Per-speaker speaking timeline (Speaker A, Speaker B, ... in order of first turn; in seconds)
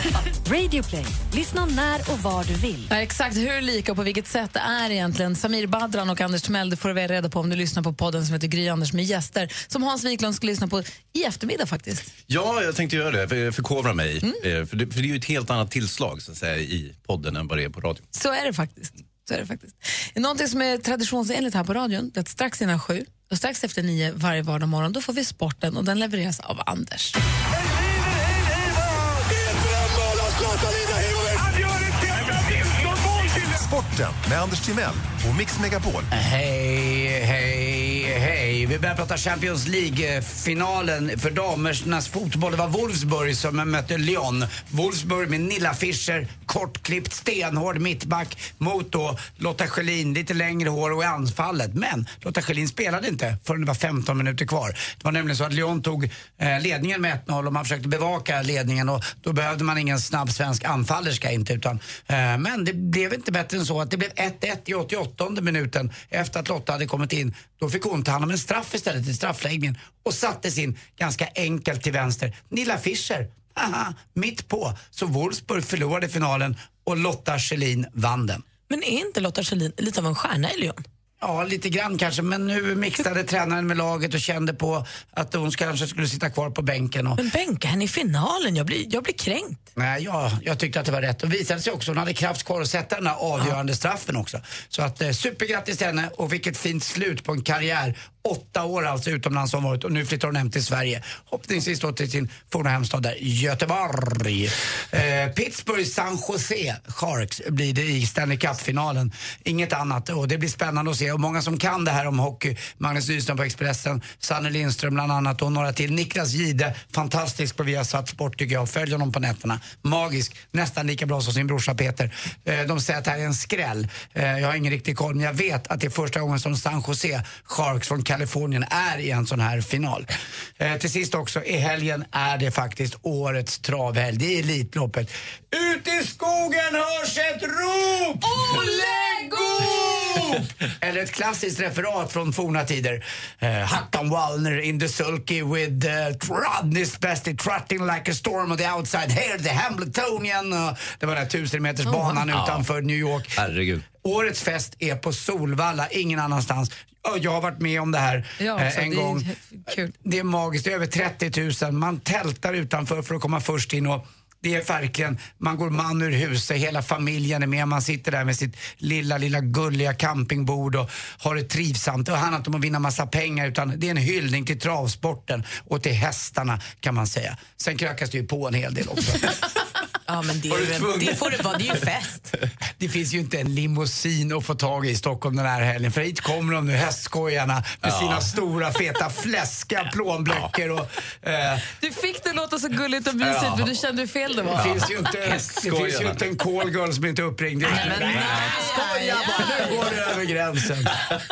Speaker A: 0.5-2.9
Speaker B: 2.9-12.1, 18.1-27.2, 138.3-139.7, 151.9-152.2, 158.4-159.9, 191.8-194.7, 197.9-199.8
Speaker C: 12.3-18.1, 152.3-152.7, 153.4-153.8, 180.5-181.3, 187.8-188.3, 193.2-193.7, 194.6-196.2, 197.7-199.3
Speaker D: 31.4-36.1
Speaker E: 36.1-78.5, 81.2-87.2, 89.8-153.4, 154.0-159.3, 159.9-179.3, 182.8-191.7, 194.5-200.9
Speaker F: 78.7-80.8, 87.2-89.6, 180.1-182.3